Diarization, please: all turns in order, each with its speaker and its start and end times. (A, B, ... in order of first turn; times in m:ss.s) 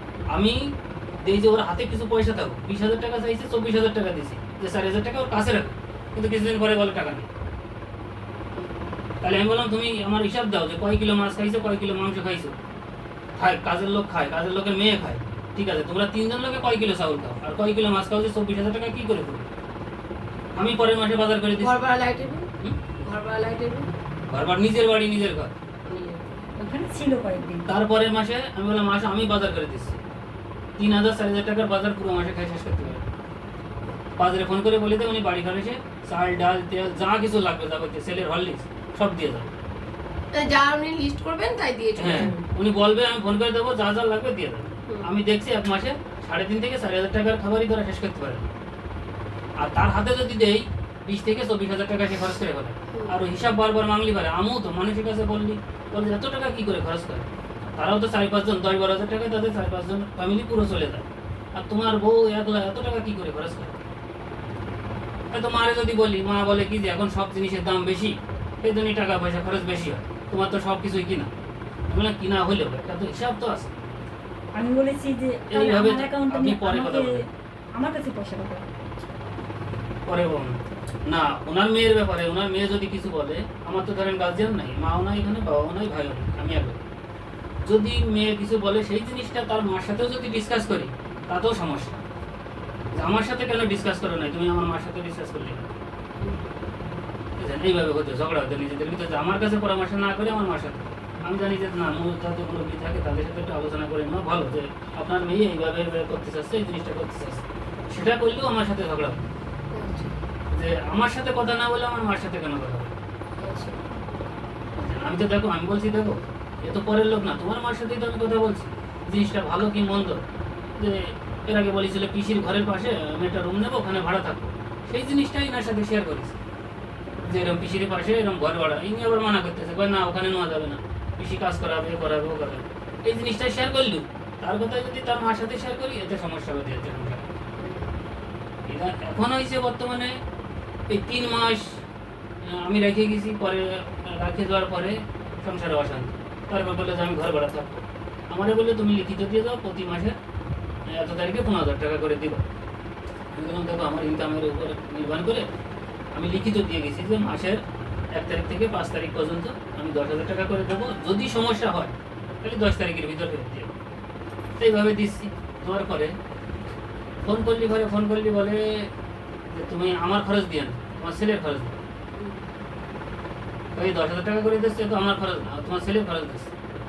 0:00.3-0:07.3 A
0:08.5-0:08.9 B
0:09.2-0:12.6 A
0:13.4-0:19.5 A
0:20.5-0:21.8 A
0:21.6-0:22.5 B
0:23.0-0:23.9 B
0:24.3-0:25.5 A
0:25.8-0:26.4 B
0:26.6-0:27.7 C
0:27.7-0:30.0 A
0:30.8-0:33.0 A
0:34.2-0:39.5 A
0:40.3-0:42.5 B
0:42.0-0:48.5 A
0:49.6-1:03.8 A
0:52.9-0:53.2 B
1:05.3-1:11.3 A
1:11.9-1:13.7 A
1:14.6-1:18.6 C
1:15.5-1:17.2 A
1:20.0-1:26.8 A
1:27.6-1:32.0 A
1:32.9-1:35.7 A
1:37.4-1:49.2 A
1:49.7-1:50.1 B
1:50.5-1:52.9 A
1:53.4-1:53.8 B
1:54.7-2:00.2 A
2:00.8-2:06.4 A
2:07.2-2:17.3 A
2:17.6-2:17.9 B
2:18.7-2:20.2 A
2:20.9-2:21.8 A
2:22.4-2:30.2 A
2:30.8-2:32.4 A
2:33.3-2:35.5 A
2:36.1-2:43.7 A
2:44.6-2:46.2 A
2:47.2-2:48.9 A
2:49.5-2:51.8 A
2:52.1-2:52.4 B
2:53.7-2:56.5 A